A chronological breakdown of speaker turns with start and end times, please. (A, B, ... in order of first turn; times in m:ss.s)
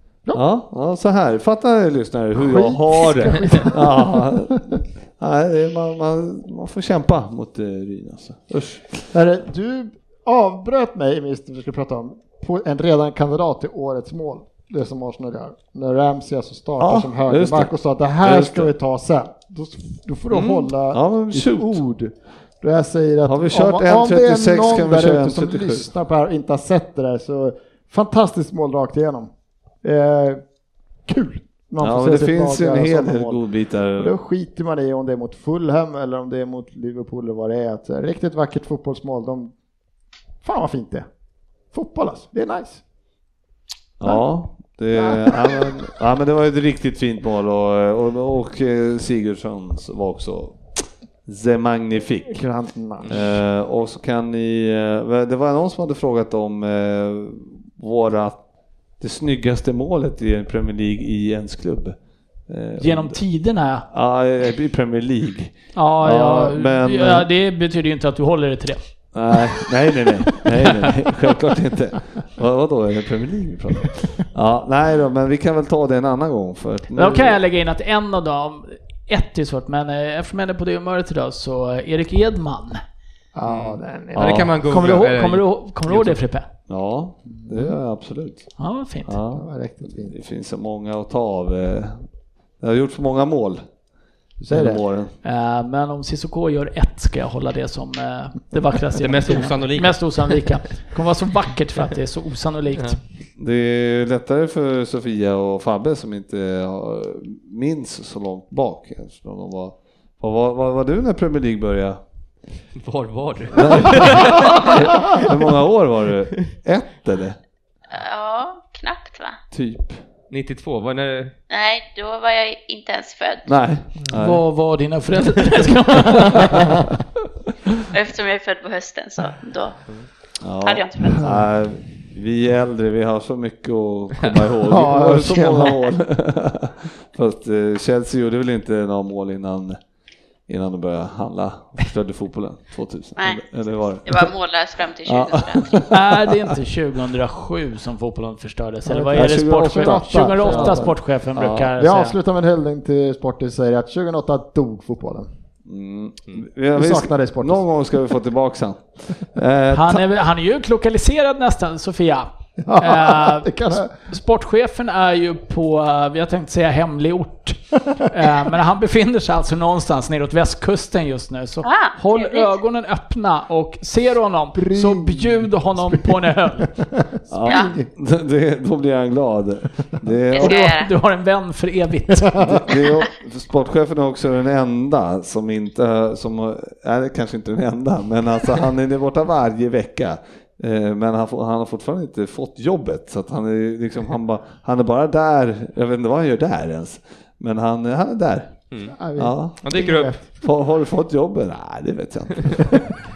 0:00.3-0:09.1 A
0:02.4-0:04.8 B
0:09.1-0:29.3 B
0:16.8-0:18.7 A
0:20.3-0:21.8 A
0:23.2-0:25.9 A
0:29.8-0:30.4 B
0:31.0-0:33.4 B
0:31.8-0:34.1 A
0:34.0-0:39.5 B
0:40.4-0:41.1 B
0:41.7-0:42.8 B
0:44.0-0:50.6 A
0:44.9-0:45.8 B
0:51.2-0:52.4 A
0:52.3-0:53.2 B
0:53.1-0:58.4 A
0:59.0-1:03.2 A
1:02.8-1:03.9 C
1:03.9-1:07.3 A
1:05.7-1:08.8 C
1:09.1-1:17.4 A
1:16.9-1:22.8 C
1:23.3-1:24.6 B
1:23.4-1:26.2 D
1:24.1-1:24.5 A
1:24.6-1:26.5 C
1:26.7-1:28.5 A
1:27.3-1:27.8 B
1:28.6-1:29.2 C
1:29.0-1:32.0 A
1:29.3-1:30.1 B
1:32.6-1:33.6 A
1:34.4-1:34.8 B
1:34.5-1:35.1 A
1:35.2-1:43.0 C
1:39.0-1:40.4 D
1:43.4-1:52.0 A
1:52.8-1:55.2 D
1:53.5-1:57.4 A
1:57.9-1:59.4 E
1:59.5-2:00.0 A
2:00.3-2:01.3 D
2:01.5-2:03.5 E
2:03.4-2:04.4 A
2:04.1-2:06.8 C
2:07.9-2:09.8 E
2:10.4-2:19.8 A
2:10.6-2:11.2 E
2:14.6-2:15.9 B
2:20.5-2:24.3 A
2:24.0-2:25.8 E
2:25.0-2:25.9 A
2:25.9-2:32.2 C
2:28.8-2:31.0 B
2:29.1-2:31.7 A
2:31.7-2:35.3 B
2:35.7-2:40.1 A
2:36.7-2:37.6 B
2:39.7-2:56.7 C
2:42.6-2:43.9 B
2:51.6-2:52.5 E
2:54.6-2:57.9 B
2:57.3-3:00.6 A
2:57.4-2:57.7 E
3:00.3-3:00.9 E
3:00.4-3:02.4 C
3:02.2-3:02.8 B
3:02.4-3:19.6 A
3:18.9-3:20.2 B
3:19.6-3:20.1 D
3:20.4-3:22.9 A